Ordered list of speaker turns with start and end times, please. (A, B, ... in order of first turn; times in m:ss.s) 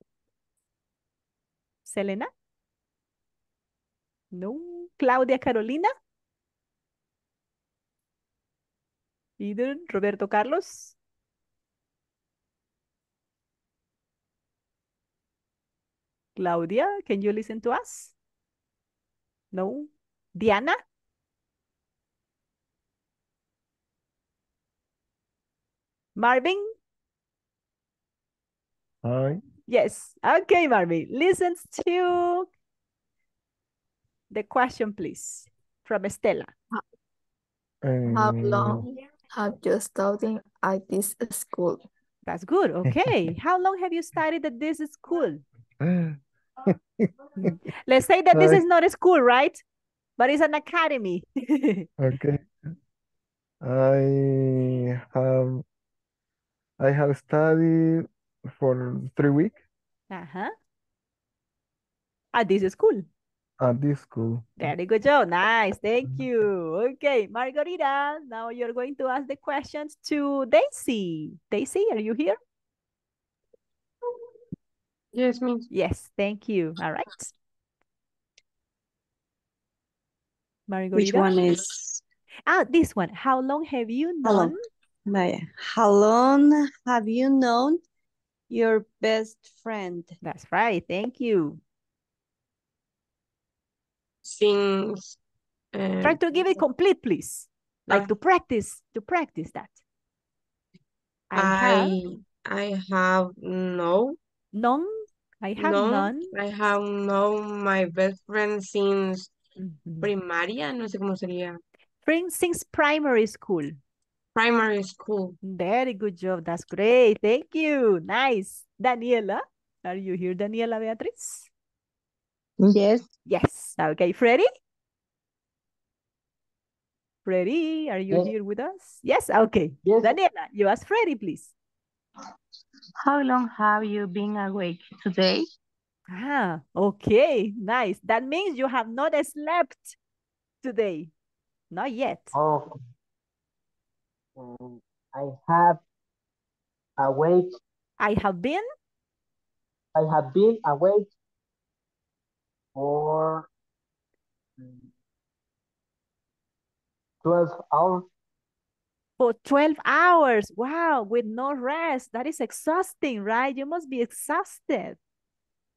0:01.9-0:02.3 A
0:04.3-0:05.9 A
0:09.4-0:11.0 A
0:16.4-0:18.1 A
0:19.5-0:20.8 A
0:26.2-0:26.7 A
0:29.0-0:29.4 B
0:29.7-0:32.5 A
0:34.3-0:36.5 A
0:37.8-0:38.9 B
0:38.1-0:41.8 C
0:42.3-0:45.4 A
0:45.8-0:46.2 B
0:47.4-0:49.6 A
0:48.3-0:48.6 B
0:50.2-0:51.9 A
0:52.0-0:52.5 B
0:53.6-0:55.6 B
0:56.8-0:59.6 B
1:00.1-1:00.5 A
1:02.3-1:03.0 A
1:03.6-1:04.6 B
1:04.6-1:12.4 A
1:15.1-1:15.7 D
1:15.7-1:17.3 A
1:20.7-1:21.4 A
1:20.9-1:22.0 E
1:22.5-1:24.6 A
1:24.2-1:24.6 E
1:25.1-1:27.8 E
1:28.5-1:30.2 E
1:30.2-1:31.6 A
1:34.2-1:35.2 D
1:35.7-1:36.2 D
1:36.0-1:39.8 A
1:41.3-1:42.0 A
1:41.4-1:44.2 D
1:44.5-1:46.3 A
1:45.6-1:49.3 D
1:49.6-1:50.1 A
1:50.0-1:51.6 D
1:52.0-1:53.7 A
1:54.4-1:55.4 D
1:55.4-2:01.5 A
2:02.6-2:03.1 F
2:03.3-2:04.4 A
2:07.2-2:11.5 A
2:09.8-2:10.2 G
2:13.0-2:15.4 F
2:16.1-2:20.0 A
2:20.6-2:21.1 A
2:21.7-2:22.4 A
2:22.4-2:22.8 G
2:24.4-2:25.8 G
2:27.0-2:27.6 G
2:28.0-2:28.7 A
2:30.0-2:31.1 G
2:32.8-2:33.5 G
2:34.6-2:34.9 G
2:37.2-2:38.1 G
2:39.2-2:45.0 A